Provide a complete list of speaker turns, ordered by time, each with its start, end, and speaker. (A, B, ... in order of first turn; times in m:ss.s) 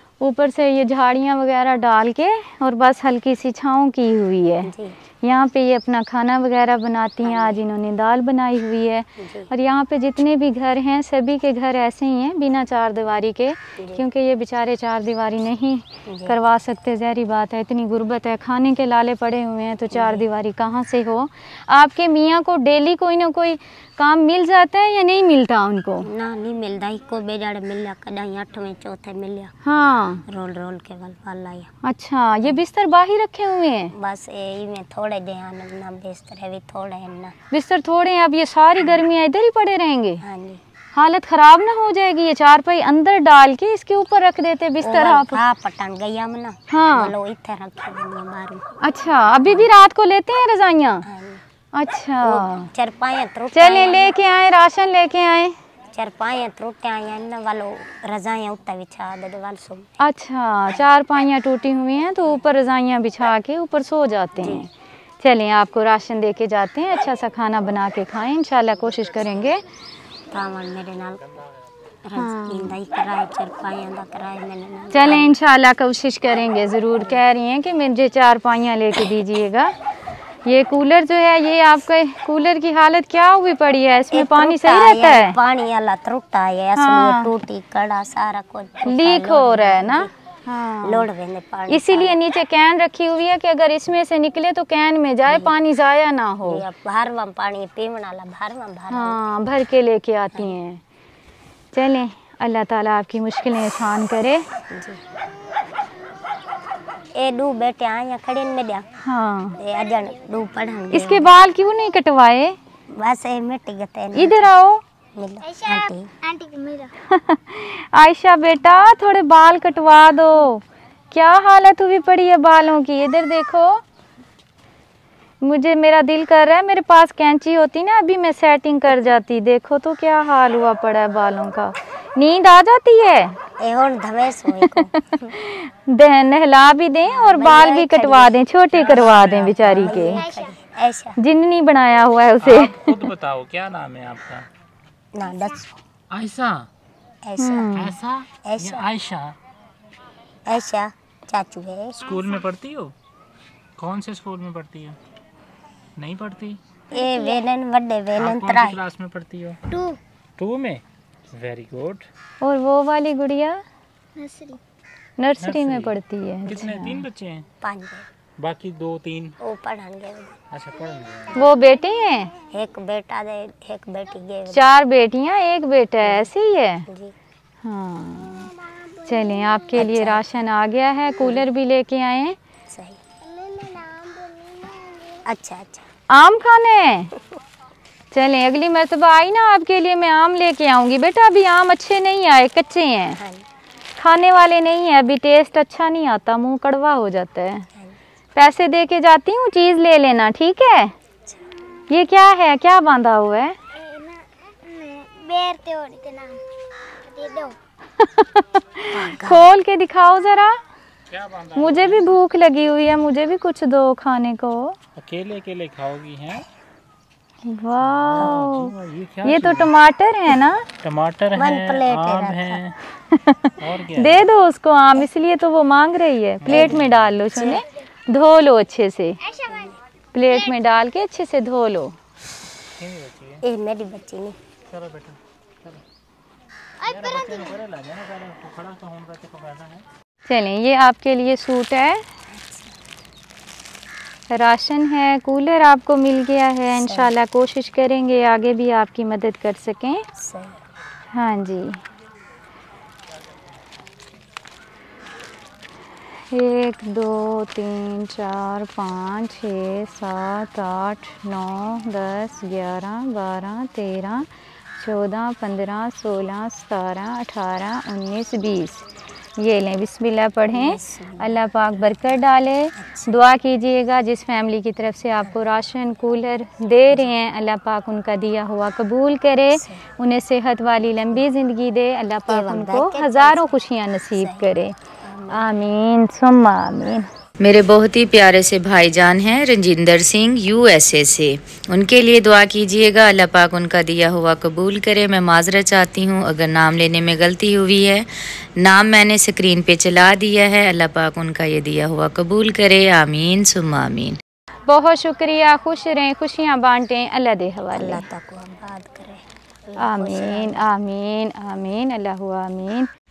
0:00.2-0:04.7 A
0:04.6-0:05.0 B
0:05.2-0:26.0 A
0:07.2-0:07.6 B
0:09.2-0:09.5 B
0:13.8-0:14.0 B
0:16.0-0:16.4 B
0:19.9-0:20.2 B
0:26.0-0:29.5 B
0:29.6-0:30.2 A
0:30.2-0:31.7 B
0:31.8-0:33.9 A
0:33.9-0:37.3 B
0:37.5-0:40.2 A
0:40.2-0:40.6 B
0:40.9-0:45.4 A
0:44.8-0:48.6 B
0:46.7-0:47.1 A
0:48.8-0:51.0 A
0:51.0-0:51.4 B
0:51.7-0:52.7 A
0:52.2-0:54.1 B
0:53.5-0:55.6 A
0:55.9-0:59.9 B
1:00.0-1:04.7 A
1:04.4-1:04.6 B
1:05.2-1:09.6 A
1:10.3-1:11.2 B
1:12.0-1:15.3 B
1:12.2-1:12.8 A
1:14.9-1:19.7 A
1:20.4-1:25.4 A
1:24.1-1:30.1 B
1:26.8-1:27.3 A
1:28.8-1:31.1 A
1:30.8-1:32.2 B
1:31.7-1:36.6 A
1:35.3-1:35.5 B
1:36.4-1:39.2 B
1:38.9-1:40.8 A
1:41.7-1:44.4 A
1:44.7-1:45.0 B
1:47.1-1:48.8 B
1:49.0-1:49.6 A
1:49.5-1:51.3 B
1:50.9-1:52.6 A
1:52.9-1:54.5 B
1:54.1-1:54.8 A
1:55.1-1:56.1 B
1:55.5-1:56.9 C
1:57.1-2:03.8 A
2:05.4-2:13.4 A
2:13.6-2:15.0 B
2:14.6-2:20.2 A
2:17.1-2:18.4 B
2:18.7-2:20.2 D
2:19.6-2:21.2 B
2:20.1-2:20.4 C
2:21.2-2:23.0 A
2:22.4-2:24.5 D
2:25.1-2:25.7 B
2:26.1-2:26.7 D
2:27.2-2:27.8 B
2:27.4-2:28.0 A
2:27.7-2:29.4 D
2:28.4-2:28.9 B
2:30.5-2:32.0 B
2:32.0-2:32.9 D
2:33.8-2:35.0 D
2:36.0-2:36.6 D
2:36.9-2:38.8 B
2:36.9-2:37.3 C
2:38.2-2:39.6 D
2:40.4-2:42.1 D
2:42.4-2:43.6 A
2:44.2-2:44.6 C
2:45.2-2:47.0 A
2:45.4-2:47.5 D
2:47.6-2:48.1 B
2:48.4-2:49.4 D
2:49.4-2:50.4 B
2:50.5-2:51.5 D
2:51.3-2:52.3 A
2:52.5-2:54.6 B
2:54.5-2:56.8 A
2:56.0-2:56.3 B
2:56.9-2:57.1 B
2:57.6-3:02.4 A
2:59.7-3:00.2 B
3:02.7-3:03.0 B
3:03.2-3:05.2 C
3:05.2-3:05.9 B
3:06.1-3:07.1 A
3:08.1-3:13.2 A
3:13.2-3:13.4 B
3:14.0-3:17.7 A
3:18.4-3:20.9 A
3:21.9-3:23.5 A
3:23.7-3:26.4 C
3:27.1-3:27.6 C
3:28.0-3:30.6 A
3:28.9-3:29.5 B
3:31.1-3:32.1 D
3:31.6-3:34.8 A
3:35.0-3:36.5 D
3:37.4-3:38.7 A
3:37.8-3:39.7 D
3:39.2-3:40.6 A
3:40.8-3:42.8 D
3:41.3-3:42.6 B
3:43.1-3:49.2 A
3:43.6-3:44.3 D
3:46.4-3:47.2 D
3:46.4-3:47.6 B
3:49.4-3:49.7 B
3:50.1-3:51.9 A
3:52.8-3:53.4 D
3:53.4-3:54.4 B
3:54.7-3:55.8 D
3:56.8-3:59.8 D
3:56.8-3:57.4 C
4:00.3-4:02.0 A
4:02.3-4:02.7 B
4:04.3-4:10.0 A
4:06.7-4:07.1 B
4:10.2-4:10.6 B
4:11.1-4:11.8 A
4:16.3-4:28.8 A
4:29.4-4:44.7 A
4:30.5-4:31.4 B
4:32.8-4:33.2 B
4:39.5-4:39.8 B
4:42.3-4:43.6 B
4:44.1-4:45.4 B
4:45.3-4:47.0 A
4:47.4-5:04.2 E
5:04.7-5:08.0 A
5:07.7-5:10.6 B
5:09.8-5:12.9 A